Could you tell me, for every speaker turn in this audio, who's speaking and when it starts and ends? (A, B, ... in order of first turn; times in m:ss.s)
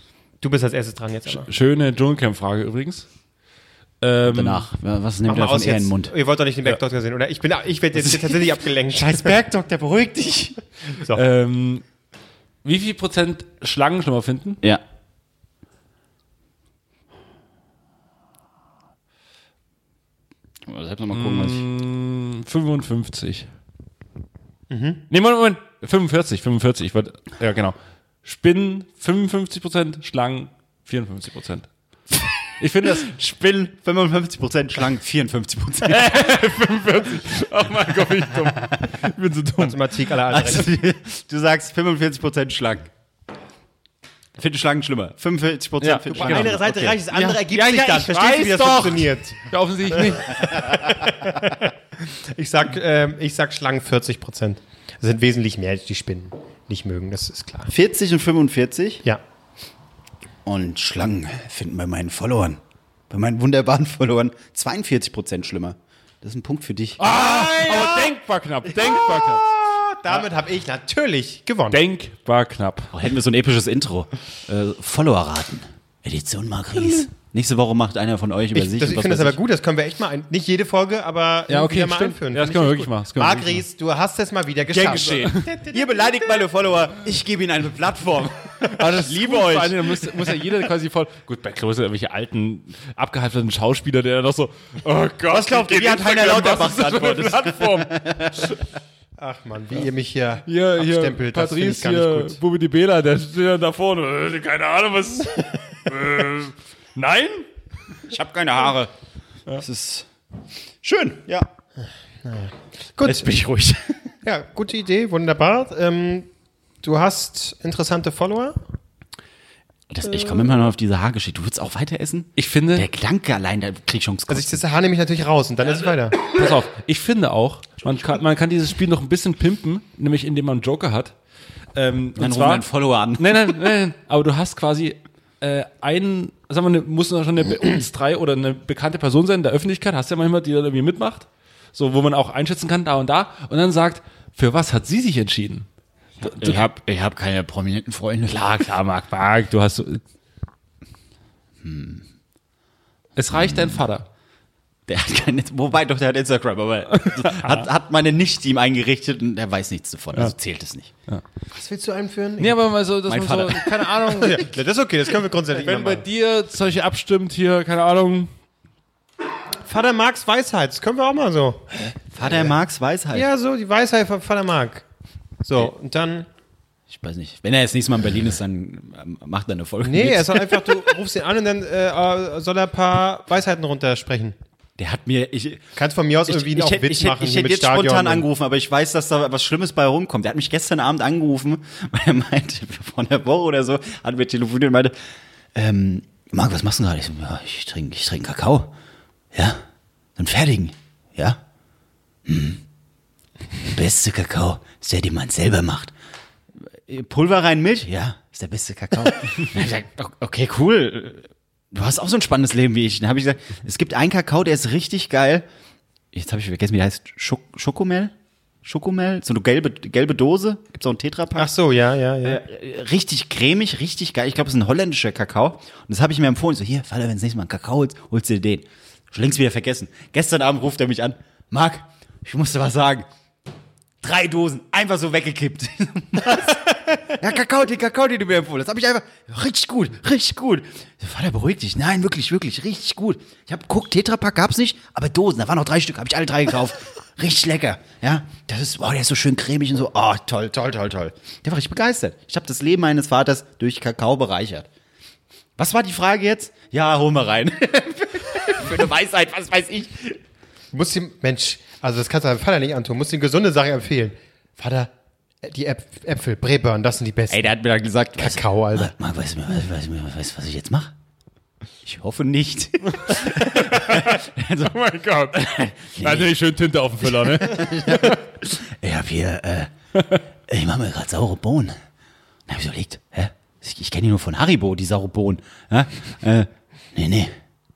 0:00.4-0:01.5 A
0:01.3-0:03.0 B
0:04.0-0:04.7 B
0:04.3-0:06.1 C
0:05.2-0:09.4 A
0:07.9-0:10.6 C
0:11.1-0:11.8 B
0:12.6-0:14.6 B
0:20.6-0:21.6 C
0:21.1-0:23.5 B
0:24.7-0:25.0 A
0:25.1-0:31.7 B
0:32.6-0:33.2 B
0:33.0-0:36.1 C
0:35.8-0:39.9 B
0:39.6-0:40.7 A
0:40.3-0:42.9 C
0:44.4-0:47.0 C
0:45.8-0:50.5 B
0:46.1-0:57.7 A
0:57.7-0:59.0 C
1:00.4-1:07.0 C
1:07.0-1:09.5 B
1:07.1-1:08.1 A
1:08.8-1:11.8 A
1:11.7-1:12.9 B
1:12.9-1:19.4 C
1:18.5-1:25.8 A
1:21.5-1:23.6 B
1:24.7-1:25.5 B
1:24.7-1:30.4 C
1:28.6-1:38.6 B
1:35.3-1:38.6 C
1:39.2-1:42.4 A
1:40.4-1:47.5 B
1:48.0-1:48.9 C
1:49.5-1:50.1 C
1:50.8-1:51.5 C
1:52.2-1:53.3 A
1:53.0-1:54.0 C
1:54.2-1:56.3 A
1:56.8-1:58.6 A
1:59.9-2:04.6 C
2:02.4-2:02.9 B
2:04.3-2:06.2 A
2:06.2-2:11.1 B
2:11.7-2:12.6 B
2:12.2-2:13.6 C
2:13.2-2:25.6 B
2:26.2-2:26.6 B
2:26.2-2:28.7 C
2:28.3-2:30.0 B
2:31.6-2:32.0 C
2:33.2-2:34.0 B
2:33.3-2:33.8 C
2:34.9-2:40.9 C
2:37.0-2:37.7 B
2:41.5-2:42.6 A
2:42.4-2:44.5 B
2:43.1-2:43.8 C
2:44.0-2:46.0 A
2:45.5-2:48.3 B
2:49.6-2:51.6 A
2:52.1-2:53.3 C
2:52.2-2:52.5 A
2:53.1-2:54.8 A
2:55.4-2:56.3 A
2:56.9-3:00.8 C
2:59.8-3:04.3 A
3:04.8-3:05.7 C
3:05.8-3:08.2 A
3:06.3-3:14.9 C
3:15.5-3:18.7 C
3:19.3-3:19.6 C
3:20.2-3:21.4 C
3:22.2-3:22.6 C
3:23.6-3:25.9 C
3:26.8-3:35.4 C
3:36.1-3:41.5 C
3:41.4-3:42.4 A
3:42.2-3:53.1 C
3:54.0-4:14.7 C
4:15.6-4:20.2 C
4:20.7-4:24.9 A
4:25.4-4:27.5 A
4:27.3-4:30.9 C
4:28.2-4:28.9 A
4:31.8-4:34.7 C
4:33.0-4:38.2 B
4:35.3-4:36.3 C
4:37.0-4:39.7 C
4:40.5-4:41.8 C
4:42.5-4:47.3 C